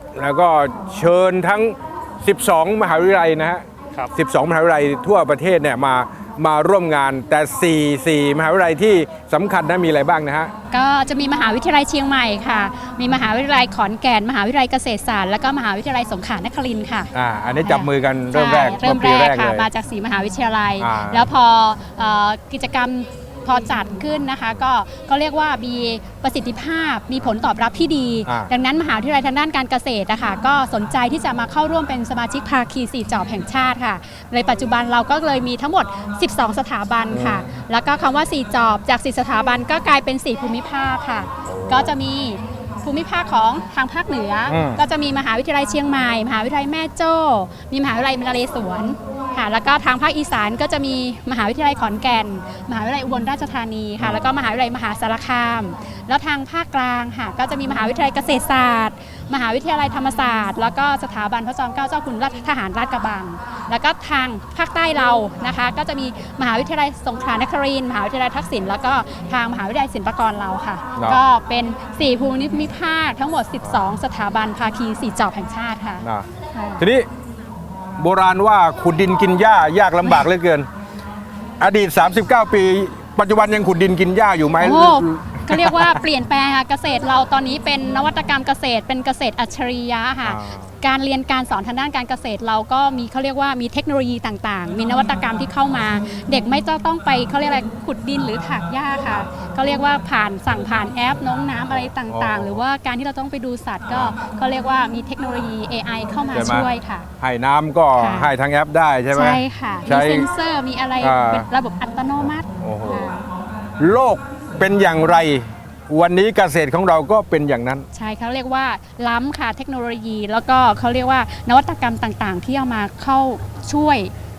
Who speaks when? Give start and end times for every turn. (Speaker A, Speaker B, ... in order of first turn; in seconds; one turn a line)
Speaker A: 0.2-10.5
Speaker B: 10.7-17.1
Speaker A: 17.1-19.7
Speaker B: 17.6-76.8
Speaker A: 20.8-21.3
Speaker A: 37.1-37.5
Speaker A: 41.5-41.9
Speaker A: 44.5-44.8
Speaker A: 54.0-54.3
Speaker A: 76.0-76.3
Speaker A: 76.8-77.1
Speaker A: 78.0-80.7
Speaker A: 81.6-86.0
Speaker B: 84.6-107.1
Speaker A: 90.2-90.7
Speaker A: 101.7-102.6
Speaker A: 103.9-104.2
Speaker A: 106.3-106.7
Speaker A: 107.2-110.3
Speaker B: 108.0-108.3
Speaker B: 109.1-113.2
Speaker A: 111.0-111.5
Speaker A: 112.2-113.1
Speaker A: 113.8-117.8
Speaker B: 117.9-124.1